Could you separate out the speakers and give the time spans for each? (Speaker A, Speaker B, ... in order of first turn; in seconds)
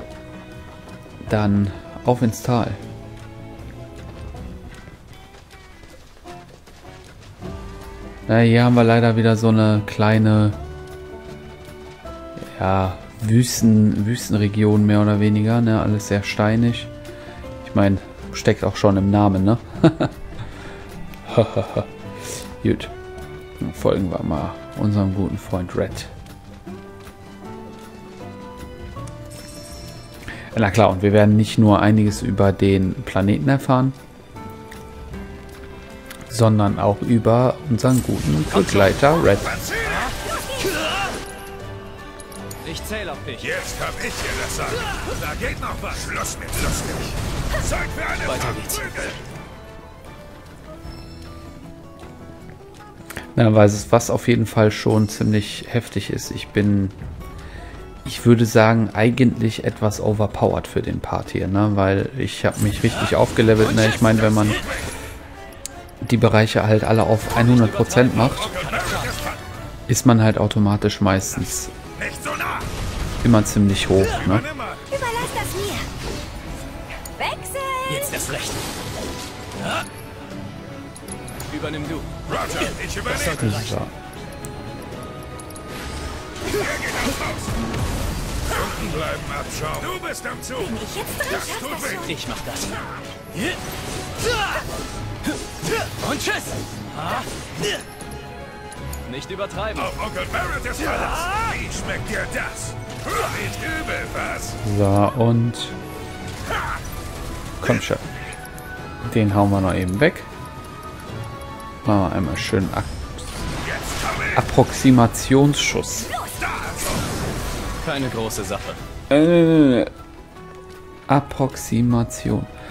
Speaker A: 1.2-2.8, 8.3-10.6, 12.5-16.9, 17.6-20.1, 21.2-21.9, 22.6-22.9, 23.6-26.1, 30.5-34.0, 36.3-39.5, 53.3-57.0, 58.0-64.6, 66.0-68.5, 69.9-71.7, 73.2-74.5, 83.2-83.9, 104.6-105.7, 107.6-108.0, 109.1-110.3, 111.8-112.9, 114.3-116.1, 119.1-119.9, 121.1-122.5
Speaker B: 39.3-40.1, 43.4-49.2, 68.2-69.4, 71.9-72.7, 74.1-74.8, 82.2-83.5, 86.5-87.5, 88.5-92.1, 99.7-104.6, 113.6-114.4, 116.3-117.0
Speaker C: 42.6-43.6, 48.2-48.9, 67.3-69.1, 77.9-78.5, 81.5-83.8, 92.0-92.7, 99.0-100.0, 117.8-118.8
Speaker D: 74.9-75.9, 77.2-78.1, 90.6-92.1